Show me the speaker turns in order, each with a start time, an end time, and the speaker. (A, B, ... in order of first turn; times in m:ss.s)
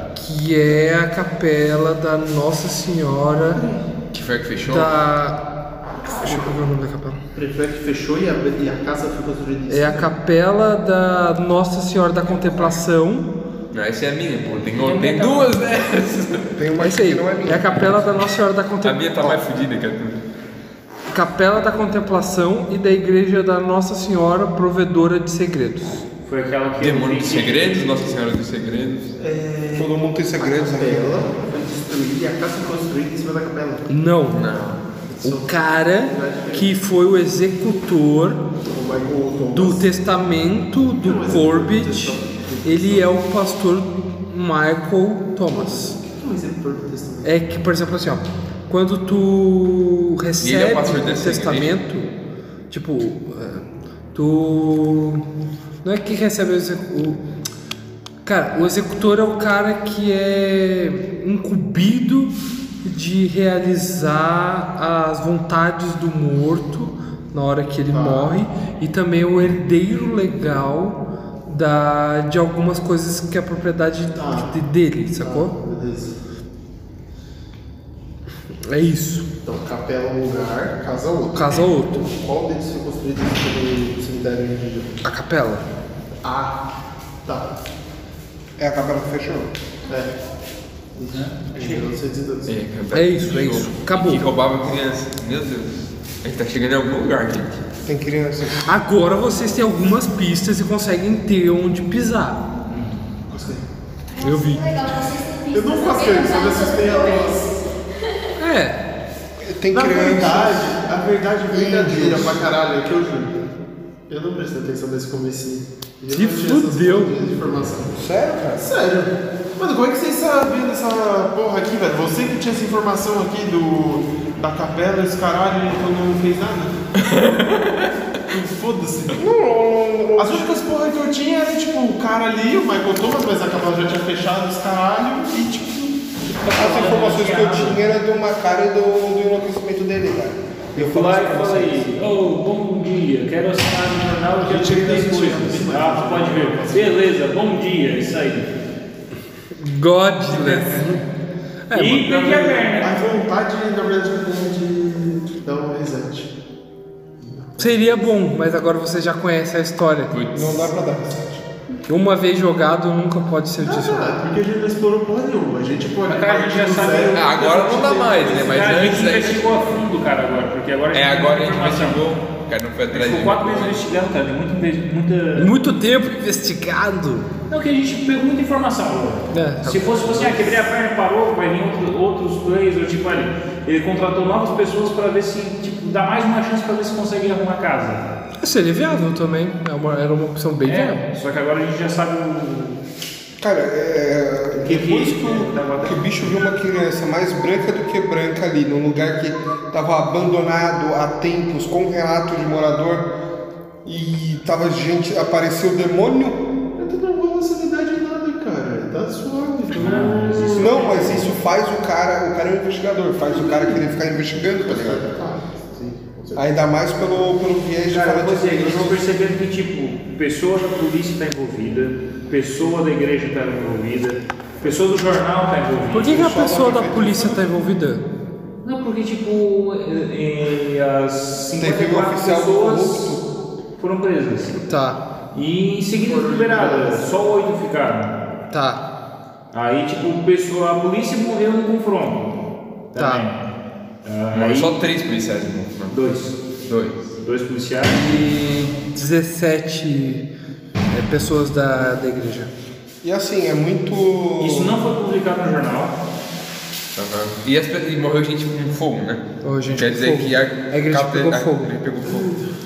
0:00.1-0:03.6 A
0:03.6-0:03.8 B
0:04.1-0:04.9 C
0:04.7-0:05.4 A
0:06.1-0:07.2 A
0:07.3-0:10.1 B
0:09.7-0:13.3 A
0:13.7-0:16.5 C
0:14.8-0:15.6 D
0:16.6-0:18.0 E
0:16.8-0:19.4 A
0:18.8-0:20.2 C
0:21.1-0:26.0 A
0:26.2-0:28.0 D
0:26.8-0:29.1 C
0:29.2-0:33.9 B
0:29.8-0:31.3 E
0:33.9-0:34.4 A
0:34.3-0:34.8 C
0:35.0-0:36.7 B
0:35.2-0:38.4 A
0:38.7-0:39.9 B
0:39.5-0:46.0 A
0:41.0-0:43.1 B
0:45.5-0:47.3 B
0:47.2-0:52.1 A
0:50.4-0:51.7 C
0:52.7-0:55.2 A
0:55.8-0:57.2 A
0:58.2-1:15.6 A
1:07.9-1:08.4 B
1:14.1-1:14.5 B
1:15.2-1:16.2 B
1:18.5-1:19.3 A
1:19.4-1:25.0 B
1:21.3-1:22.0 A
1:25.0-1:25.6 A
1:26.2-1:26.6 B
1:27.2-1:27.5 B
1:28.6-1:29.5 E
1:29.9-1:30.2 B
1:29.9-1:30.2 F
1:30.9-1:32.6 B
1:31.1-1:31.9 D
1:32.4-1:37.6 C
1:32.9-1:34.3 A
1:37.8-1:38.6 E
1:38.6-1:42.4 A
1:42.7-1:43.1 D
1:43.3-1:43.6 B
1:44.1-1:48.3 F
1:44.2-1:44.8 A
1:45.5-1:47.5 B
1:48.4-1:48.8 A
1:49.4-1:50.8 E
1:49.7-1:53.5 B
1:51.5-1:52.4 E
1:54.1-1:58.0 B
1:56.1-1:57.2 A
1:57.9-1:58.7 E
1:58.6-2:06.8 B
2:06.9-2:07.9 C
2:08.3-2:09.2 B
2:09.2-2:10.5 E
2:10.2-2:16.9 B
2:16.3-2:17.8 D
2:16.5-2:21.8 E
2:20.7-2:28.5 D
2:24.3-2:27.0 B
2:29.5-2:31.0 A
2:30.3-2:31.0 D
2:31.7-2:32.6 A
2:31.7-2:33.0 D
2:32.4-2:36.3 B
2:37.2-2:37.8 B
2:37.6-2:40.2 A
2:40.1-2:40.7 C
2:40.3-2:41.4 B
2:41.9-2:44.1 A
2:43.6-2:48.6 B
2:46.0-2:52.0 D
2:47.1-2:49.5 C
2:50.9-2:53.8 C
2:52.9-2:55.5 D
2:55.3-2:57.3 A
2:57.5-3:08.1 D
2:59.3-3:00.4 A
3:08.4-3:11.0 A
3:10.6-3:12.8 D
3:13.4-3:23.1 E
3:14.6-3:15.5 B
3:14.6-3:16.3 D
3:23.8-3:26.4 E
3:26.8-3:31.2 B
3:29.7-3:31.3 D
3:30.6-3:35.1 E
3:33.2-3:33.9 B
3:34.5-3:36.6 B
3:36.3-3:39.0 E
3:37.9-3:46.3 D
3:45.9-3:48.0 A
3:46.1-3:47.4 B
3:48.6-3:53.2 D
3:51.6-3:53.2 E
3:53.8-3:54.6 D
3:54.6-3:55.0 A
3:55.3-3:58.2 D
3:55.9-3:57.1 B
3:58.5-3:58.9 A
3:59.5-4:02.3 D
4:02.9-4:03.4 D
4:02.9-4:03.2 A
4:04.0-4:04.8 D
4:04.3-4:06.0 C
4:05.9-4:06.5 D
4:06.6-4:07.0 C
4:07.2-4:08.2 D
4:07.8-4:10.3 A
4:10.9-4:12.5 A
4:13.0-4:14.8 E
4:14.4-4:16.0 D
4:16.9-4:22.3 C
4:19.4-4:22.1 A
4:22.0-4:22.5 B